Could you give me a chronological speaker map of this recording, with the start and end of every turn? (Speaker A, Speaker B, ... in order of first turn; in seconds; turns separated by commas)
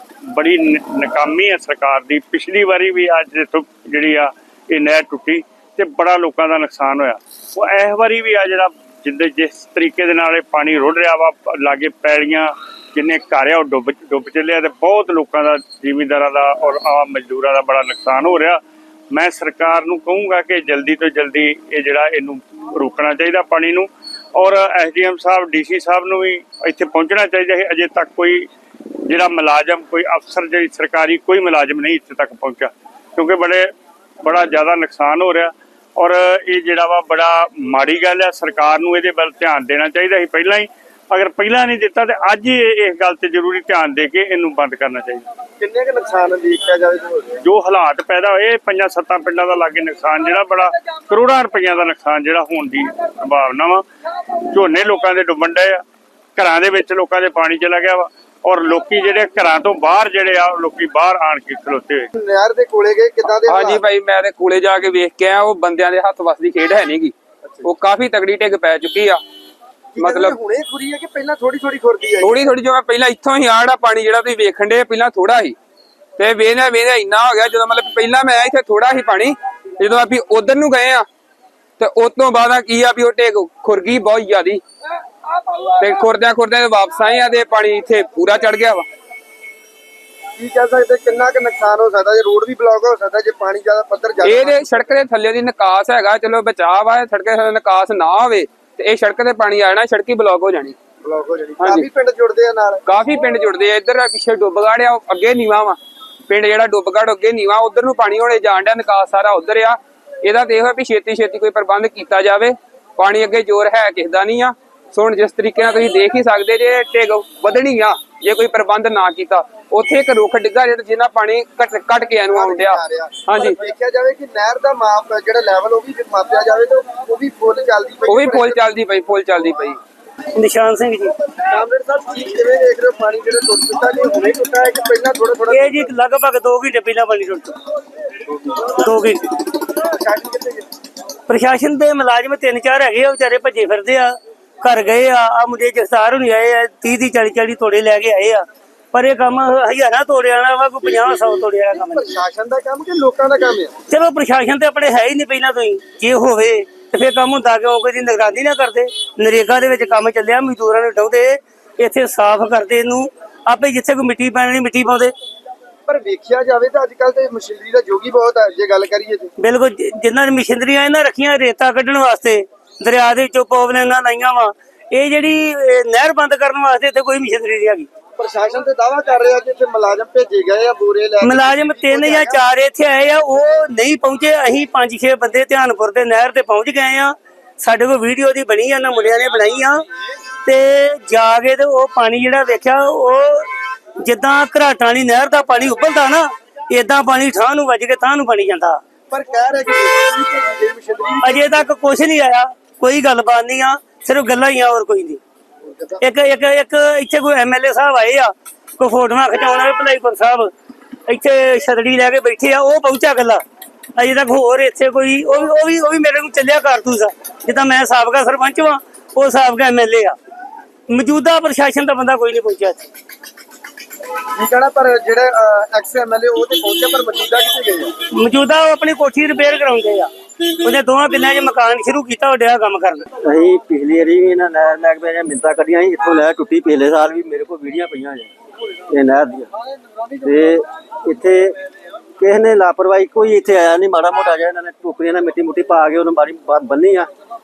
Speaker A: 0.3-28.5, Speaker A: 29.1-33.7, Speaker A: 34.2-45.2, Speaker B: 45.6-47.4, Speaker A: 47.4-53.8, Speaker A: 54.4-55.8, Speaker A: 56.4-62.1, Speaker B: 62.1-63.8, Speaker C: 63.5-67.1, Speaker C: 67.6-69.2, Speaker B: 69.9-72.4, Speaker C: 70.0-70.4, Speaker C: 72.2-75.5, Speaker C: 76.2-81.0, Speaker C: 81.8-84.6, Speaker C: 85.6-88.8, Speaker B: 90.4-94.8, Speaker C: 94.2-100.8, Speaker B: 101.0-102.8, Speaker C: 101.6-101.9, Speaker C: 102.8-105.8, Speaker C: 106.3-123.6, Speaker B: 122.2-128.6, Speaker C: 128.1-129.8, Speaker D: 130.3-131.1, Speaker B: 131.5-135.9, Speaker D: 135.5-137.6, Speaker D: 138.7-139.3, Speaker B: 139.8-140.7, Speaker D: 141.3-152.0, Speaker B: 150.8-153.7, Speaker D: 153.9-165.1, Speaker B: 165.8-169.3, Speaker D: 169.4-177.9, Speaker B: 178.2-182.4, Speaker D: 181.2-189.8, Speaker D: 190.4-193.5, Speaker D: 194.0-198.8, Speaker B: 199.1-201.7, Speaker D: 201.2-205.2, Speaker B: 205.6-206.0, Speaker D: 206.0-210.5, Speaker D: 211.1-213.4, Speaker D: 213.9-220.2, Speaker D: 220.9-222.9, Speaker B: 224.3-227.9, Speaker D: 228.1-230.1, Speaker D: 230.6-233.1, Speaker E: 233.2-238.3, Speaker E: 238.9-239.5, Speaker E: 240.2-241.6, Speaker E: 242.2-247.1